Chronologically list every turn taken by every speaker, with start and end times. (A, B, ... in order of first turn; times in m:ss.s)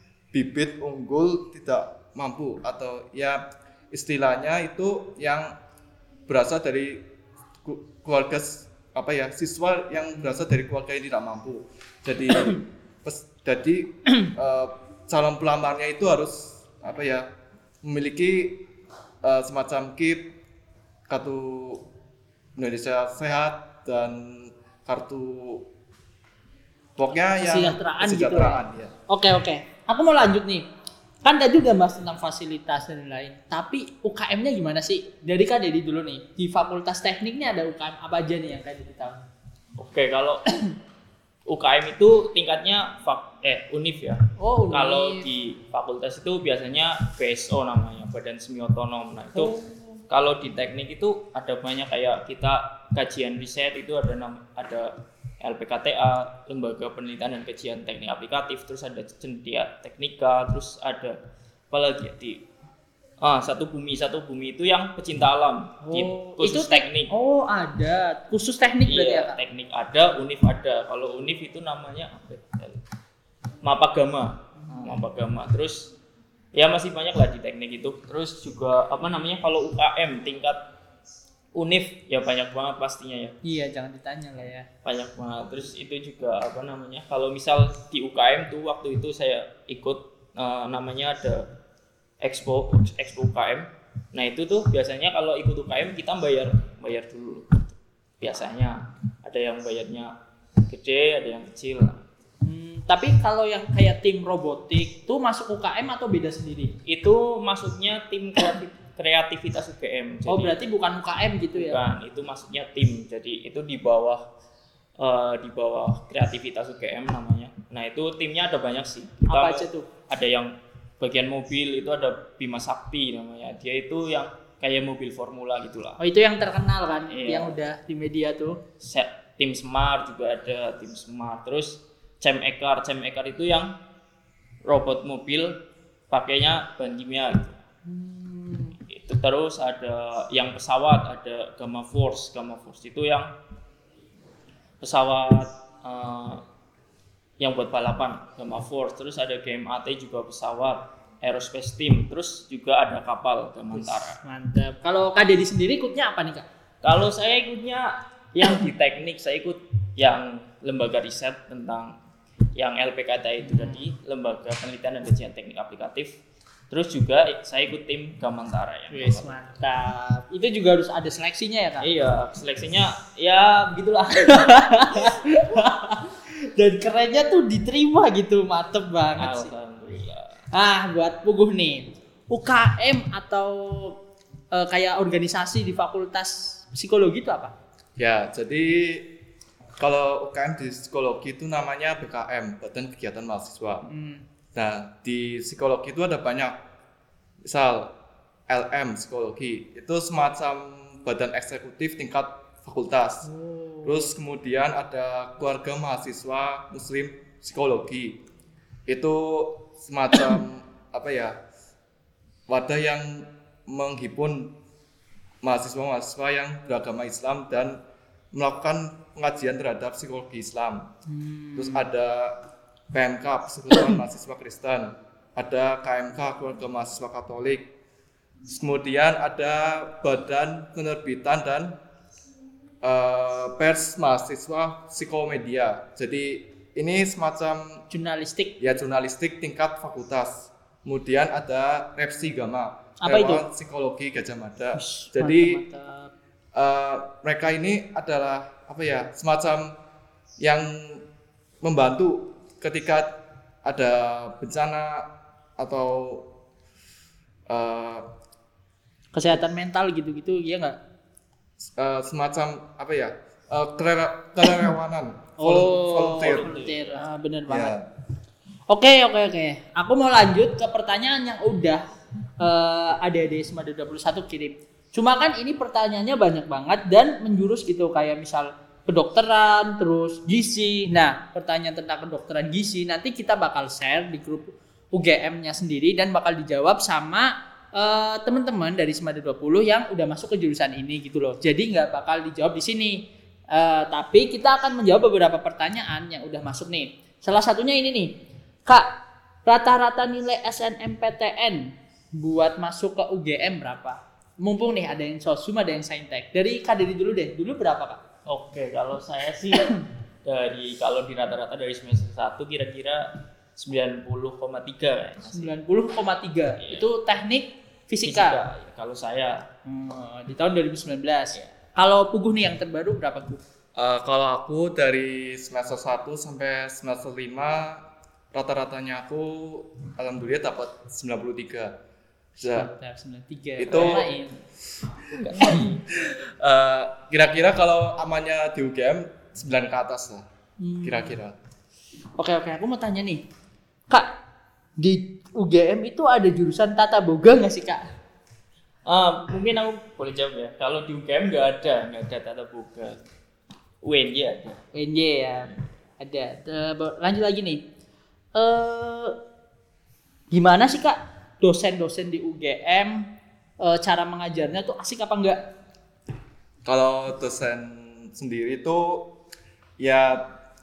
0:00.3-0:03.4 A
0:03.9-0:05.5 A
0:06.3-0:07.0 A
0:07.6-0:17.2 A
0:17.8-0:18.6 A
0:19.2-0:20.3 A
0:21.1-0:21.8 A
0:22.6-0:25.6 A
0:27.0-0:28.9 A
0:27.2-0:30.7 B
0:31.2-0:39.2 B
0:39.8-0:40.4 C
0:41.5-0:49.5 C
0:44.4-0:45.3 B
0:49.4-0:50.0 B
0:50.1-1:01.2 C
1:01.7-1:02.4 C
1:03.2-1:07.1 C
1:05.8-1:09.4 B
1:08.9-1:12.8 C
1:13.6-1:15.9 C
1:16.5-1:20.6 C
1:21.6-1:23.4 C
1:23.4-1:24.7 B
1:24.8-1:31.5 C
1:32.2-1:40.1 C
1:40.7-1:42.0 C
1:42.4-1:46.7 B
1:46.9-1:50.6 C
1:50.3-1:51.8 B
1:51.6-1:54.2 C
1:55.0-2:06.0 C
1:59.3-1:59.9 B
2:06.0-2:08.6 B
2:07.1-2:07.6 C
2:08.8-2:13.7 C
2:14.7-2:15.6 C
2:16.1-2:17.6 C
2:17.9-2:18.8 B
2:18.9-2:23.3 C
2:24.8-2:26.4 C
2:27.4-2:34.2 C
2:33.8-2:36.5 B
2:36.8-2:41.9 C
2:42.6-2:46.2 C
2:43.5-2:43.8 B
2:46.7-2:49.3 C
2:48.9-2:51.9 B
2:51.8-2:54.6 C
2:54.2-2:59.5 B
2:59.2-3:00.4 C
3:00.5-3:04.0 B
3:04.5-3:07.5 B
3:08.0-3:09.1 A
3:09.8-3:13.8 A
3:13.9-3:14.2 B
3:14.6-3:16.6 A
3:17.4-3:17.9 A
3:18.5-3:23.3 A
3:23.2-3:24.1 B
3:23.8-3:28.2 A
3:28.9-3:31.4 A
3:32.5-3:34.5 A
3:35.4-3:37.8 A
3:38.3-3:40.9 A
3:41.1-3:41.9 B
3:41.6-3:42.4 A
3:42.9-3:47.7 A
3:48.5-3:51.8 A
3:52.8-3:57.8 A
3:57.9-3:58.7 B
3:58.6-4:05.6 A
4:03.0-4:03.4 B
4:04.8-4:06.1 B
4:06.6-4:09.7 A
4:10.4-4:11.0 A
4:11.6-4:13.1 A
4:13.6-4:15.0 A
4:15.6-4:16.2 A
4:17.5-4:18.0 A
4:19.1-4:20.8 B
4:21.8-4:26.6 A
4:25.4-4:27.8 B
4:26.1-4:27.0 C
4:27.5-4:27.8 A
4:28.7-4:31.8 B
4:32.4-4:58.1 B
4:59.5-5:08.0 B
5:08.3-5:13.0 C
5:13.6-5:15.5 C
5:15.3-5:18.4 B
5:16.6-5:16.9 C
5:18.0-5:19.4 C
5:19.7-5:23.4 B
5:23.8-5:31.7 A
5:32.4-5:32.7 A
5:32.4-5:34.4 B
5:33.6-5:34.1 A
5:35.2-5:35.8 B
5:35.2-5:40.2 A
5:40.6-5:41.2 B
5:40.8-5:41.4 A
5:42.2-5:43.2 B
5:44.8-5:47.8 B
5:48.9-5:53.0 C
5:53.8-5:54.6 C
5:54.7-5:57.6 B
5:58.4-5:59.2 B
6:00.3-6:03.0 B
6:03.6-6:05.4 B
6:06.7-6:09.1 A
6:09.8-6:10.2 A